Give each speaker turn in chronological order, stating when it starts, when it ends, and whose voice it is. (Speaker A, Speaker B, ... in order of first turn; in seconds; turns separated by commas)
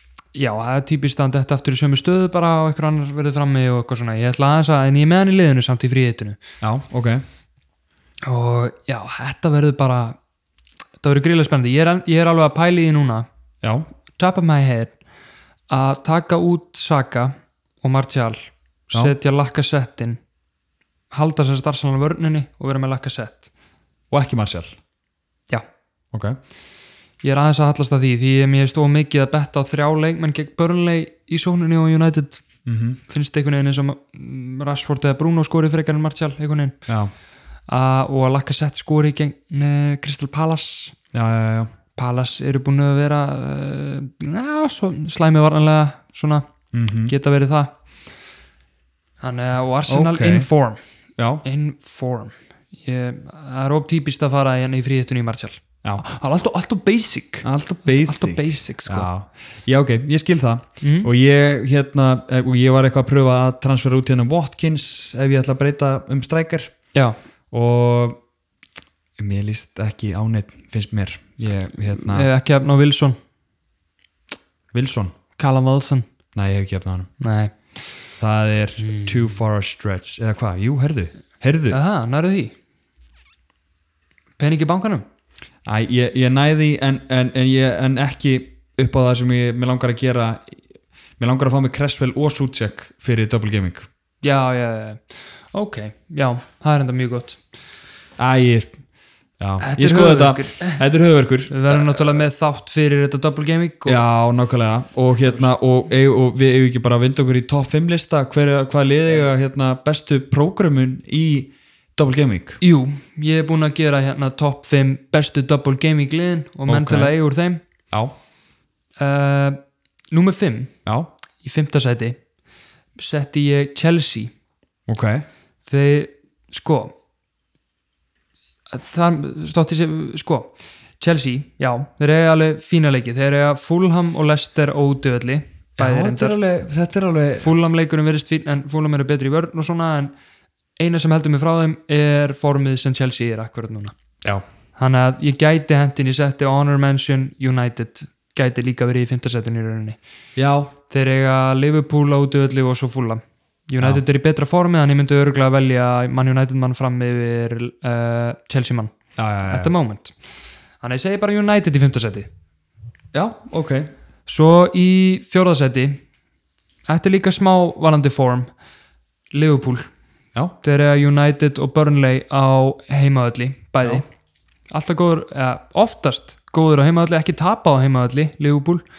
Speaker A: 0.3-6.4, Speaker B: 6.6-7.2, Speaker A: 8.2-10.2, Speaker A: 11.0-13.2, Speaker A: 14.2-14.9, Speaker A: 15.7-20.2, Speaker A: 21.1-23.5, Speaker B: 24.1-24.8, Speaker B: 26.1-26.4, Speaker A: 27.2-32.4, Speaker B: 32.6-33.0, Speaker A: 33.1-36.8, Speaker B: 36.9-37.1, Speaker A: 37.7-41.0, Speaker B: 41.1-41.7, Speaker A: 42.0-46.4, Speaker B: 46.7-47.1, Speaker A: 47.0-47.7, Speaker A: 49.2-50.8, Speaker B: 49.9-50.5, Speaker B: 51.2-51.4, Speaker A: 51.4-59.1, Speaker B: 57.4-66.7, Speaker A: 60.8-61.1, Speaker B: 67.5-68.2, Speaker B: 69.2-72.3, Speaker A: 72.0-73.2, Speaker B: 74.7-75.1, Speaker A: 75.4-76.0, Speaker B: 76.3-77.1, Speaker A: 77.2-77.5, Speaker B: 78.2-81.8, Speaker A: 78.8-79.3, Speaker A: 81.7-82.5, Speaker A: 84.4-85.0, Speaker B: 85.7-90.6, Speaker B: 91.2-93.9, Speaker A: 94.2-97.4, Speaker B: 98.2-98.8, Speaker B: 99.4-102.2, Speaker A: 99.6-100.8, Speaker A: 101.5-104.0, Speaker B: 103.8-112.6, Speaker A: 112.6-117.6, Speaker B: 116.7-117.2, Speaker A: 119.0-119.6, Speaker A: 120.1-120.7, Speaker A: 121.4-122.2, Speaker A: 123.0-124.3, Speaker B: 124.9-125.2, Speaker A: 125.7-126.9, Speaker A: 128.7-136.4, Speaker B: 135.8-137.5, Speaker A: 137.4-140.1, Speaker A: 140.8-143.9, Speaker A: 144.8-150.0, Speaker B: 150.3-150.7, Speaker A: 150.9-158.9, Speaker B: 159.2-159.7, Speaker A: 159.4-160.1, Speaker A: 160.8-162.3, Speaker B: 163.1-163.9, Speaker A: 164.3-166.0, Speaker A: 166.9-168.5, Speaker A: 169.3-169.9, Speaker A: 170.6-174.1, Speaker A: 174.7-178.8